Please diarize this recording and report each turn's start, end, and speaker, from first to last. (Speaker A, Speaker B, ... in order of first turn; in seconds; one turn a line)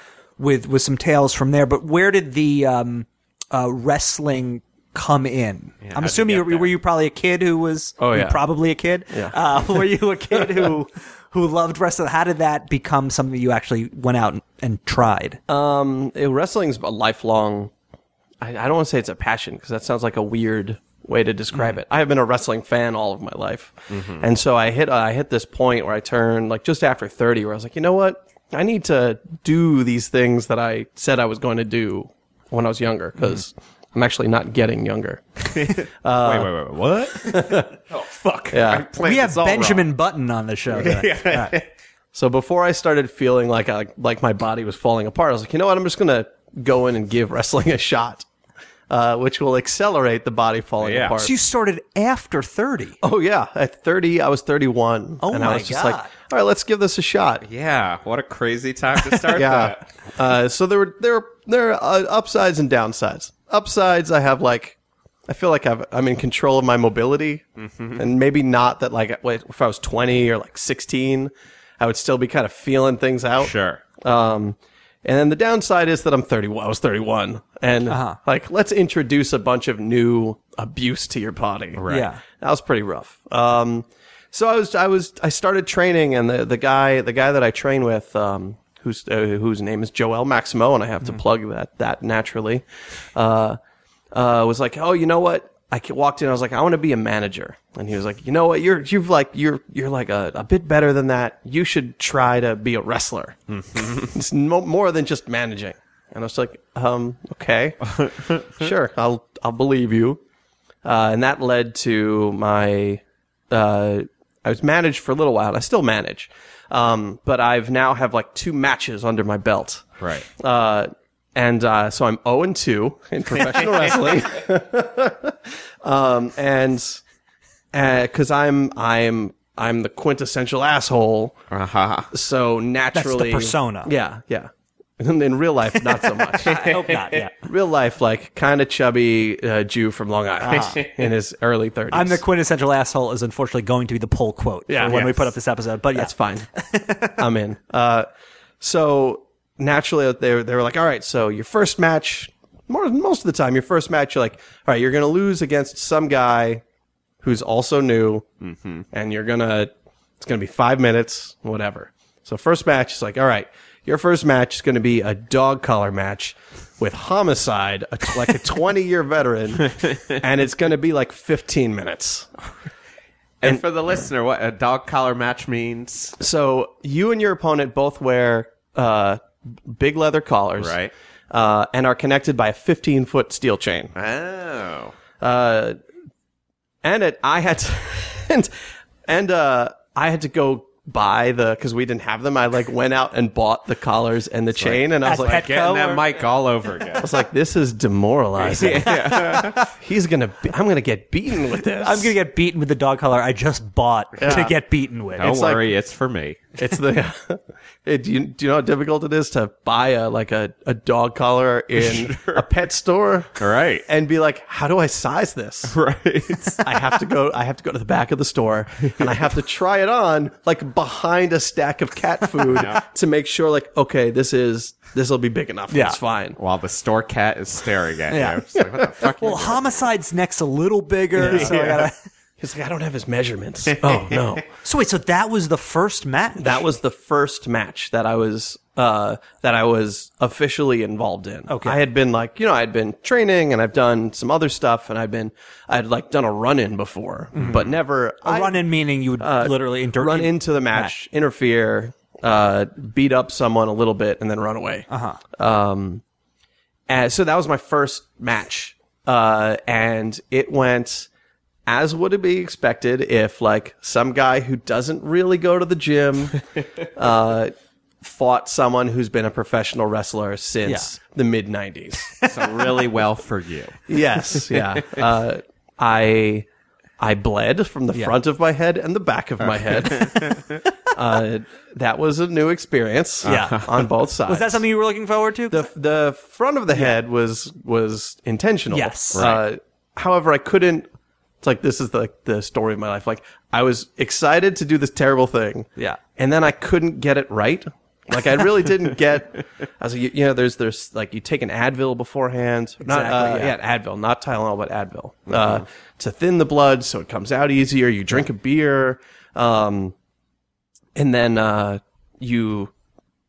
Speaker A: 0.4-15.4
Speaker B: 5.8-6.7
Speaker C: 8.0-8.4
Speaker C: 9.1-10.7
Speaker C: 15.5-17.7
Speaker C: 18.4-36.5
Speaker B: 23.9-24.2
Speaker B: 35.5-39.9
Speaker C: 37.1-37.7
Speaker C: 38.5-38.9
Speaker A: 39.0-41.5
Speaker B: 40.7-41.7
Speaker C: 42.1-48.3
Speaker C: 48.9-51.4
Speaker B: 50.8-51.2
Speaker A: 51.2-53.0
Speaker C: 53.0-57.5
Speaker A: 55.2-56.1
Speaker B: 57.5-59.8
Speaker C: 59.2-64.8
Speaker C: 65.3-67.5
Speaker B: 67.6-68.0
Speaker C: 68.0-81.8
Speaker B: 73.4-73.8
Speaker A: 77.9-78.2
Speaker B: 81.8-82.1
Speaker A: 81.9-82.2
Speaker C: 82.3-92.6
Speaker C: 93.2-93.6
Speaker C: 94.1-108.0
Speaker B: 103.5-104.1
Speaker B: 107.9-108.5
Speaker C: 108.6-110.2
Speaker C: 110.8-127.0
Speaker B: 120.0-120.3
Speaker B: 123.5-123.8
Speaker C: 127.7-131.4
Speaker B: 131.5-132.1
Speaker C: 132.1-136.6
Speaker A: 132.9-133.9
Speaker A: 136.4-137.3
Speaker B: 136.4-137.2
Speaker C: 137.4-142.2
Speaker A: 140.5-140.8
Speaker B: 140.5-141.0
Speaker A: 141.9-147.2
Speaker C: 144.7-145.2
Speaker C: 145.9-146.5
Speaker C: 147.2-148.1
Speaker C: 148.6-156.6
Speaker C: 157.2-158.3
Speaker B: 158.4-158.8
Speaker C: 158.9-172.4
Speaker B: 173.4-176.2
Speaker C: 176.2-180.8
Speaker B: 180.6-180.9
Speaker C: 181.3-183.9
Speaker B: 183.9-184.9
Speaker C: 185.2-185.8
Speaker C: 186.8-188.5
Speaker C: 189.1-195.5
Speaker B: 194.6-197.1
Speaker A: 195.0-196.1
Speaker C: 197.0-202.1
Speaker B: 198.4-199.6
Speaker A: 199.2-199.4
Speaker A: 201.8-205.4
Speaker C: 204.2-204.5
Speaker B: 204.2-204.5
Speaker B: 205.2-206.4
Speaker C: 205.2-205.6
Speaker C: 206.6-215.8
Speaker B: 211.8-212.4
Speaker B: 213.4-213.8
Speaker B: 215.7-216.8
Speaker C: 216.6-226.4
Speaker B: 222.5-222.8
Speaker A: 225.7-226.0
Speaker B: 226.4-229.9
Speaker A: 228.1-228.4
Speaker C: 228.6-228.9
Speaker A: 229.2-231.9
Speaker C: 231.2-234.4
Speaker B: 231.2-231.8
Speaker B: 233.7-234.3
Speaker A: 234.6-236.7
Speaker C: 236.4-248.6
Speaker A: 241.5-241.8
Speaker A: 247.4-247.6
Speaker B: 247.4-247.7
Speaker A: 248.2-250.9
Speaker C: 249.2-256.0
Speaker A: 254.9-255.2
Speaker C: 256.9-261.1
Speaker C: 261.7-266.4
Speaker C: 266.9-272.2
Speaker A: 272.1-272.7
Speaker B: 272.2-273.9
Speaker C: 273.9-276.5
Speaker B: 274.5-275.0
Speaker C: 277.0-284.6
Speaker B: 279.5-280.4
Speaker A: 283.2-283.6
Speaker B: 283.2-283.8
Speaker A: 284.3-285.7
Speaker C: 285.5-290.9
Speaker A: 288.7-289.3
Speaker B: 289.1-289.4
Speaker C: 291.4-309.9
Speaker A: 302.8-303.5
Speaker C: 311.0-312.7